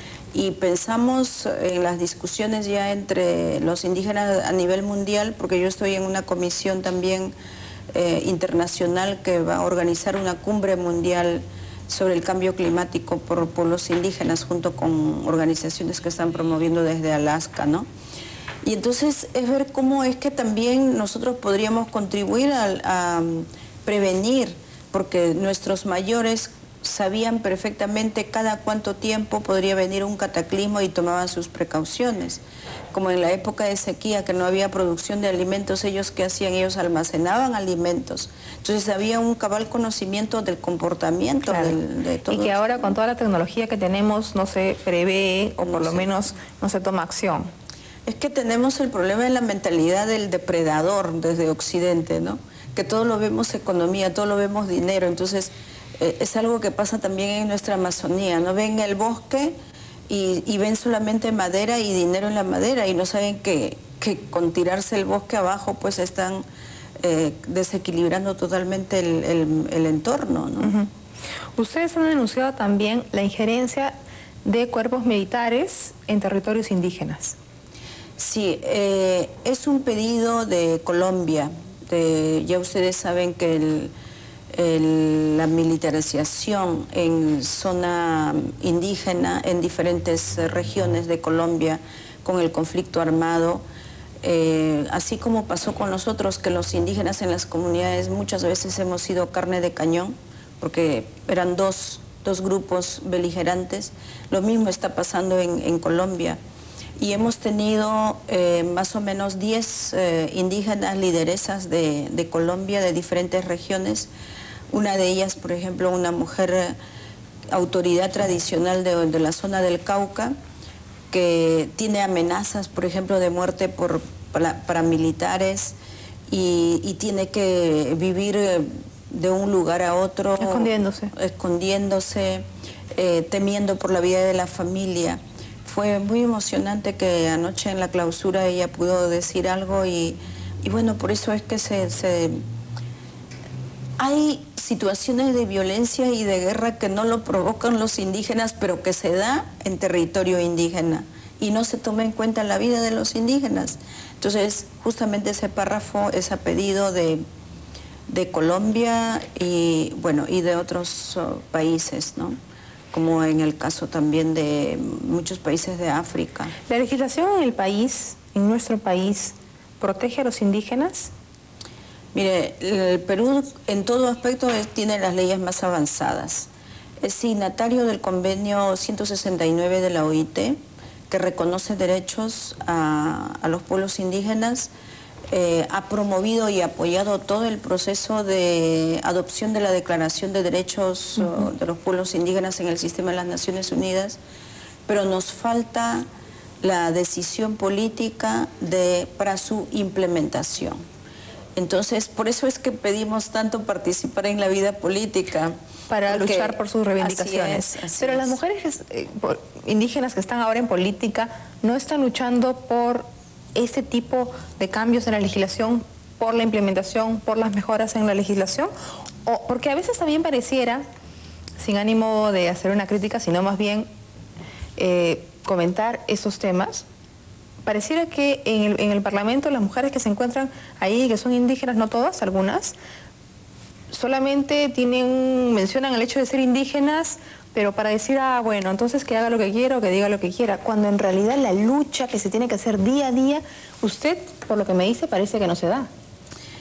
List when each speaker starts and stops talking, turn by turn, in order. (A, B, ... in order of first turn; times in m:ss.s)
0:00.3-0:07.3 A
0:07.9-0:17.9 A
0:18.6-0:32.4 A
0:32.9-0:42.9 A
0:41.4-0:41.8 B
0:42.3-0:47.5 B
0:45.6-0:46.1 A
0:48.0-0:59.6 A
1:00.1-1:06.4 A
1:07.0-1:10.8 A
1:10.6-1:10.9 B
1:11.6-1:13.9 B
1:14.4-1:17.4 B
1:18.2-1:23.9 A
1:24.5-1:33.6 A
1:34.2-1:46.4 A
1:47.0-1:54.1 A
1:54.7-1:56.8 A
1:57.5-2:00.3 A
2:01.1-2:05.8 A
2:06.3-2:22.4 A
2:10.4-2:11.1 B
2:24.0-2:37.2 A
2:38.1-2:42.4 A
2:42.9-2:46.6 A
2:46.7-2:51.1 B
2:52.2-2:56.5 A
2:57.0-3:00.6 A
3:01.1-3:04.7 A
3:05.3-3:14.2 A
3:14.9-3:16.0 A
3:16.6-3:20.8 A
3:21.6-3:25.6 A
3:25.9-3:38.7 B
3:26.1-3:28.4 A
3:39.2-3:40.8 B
3:41.6-3:43.9 B
3:44.8-3:46.9 B
3:47.6-3:52.8 B
3:53.9-4:05.9 B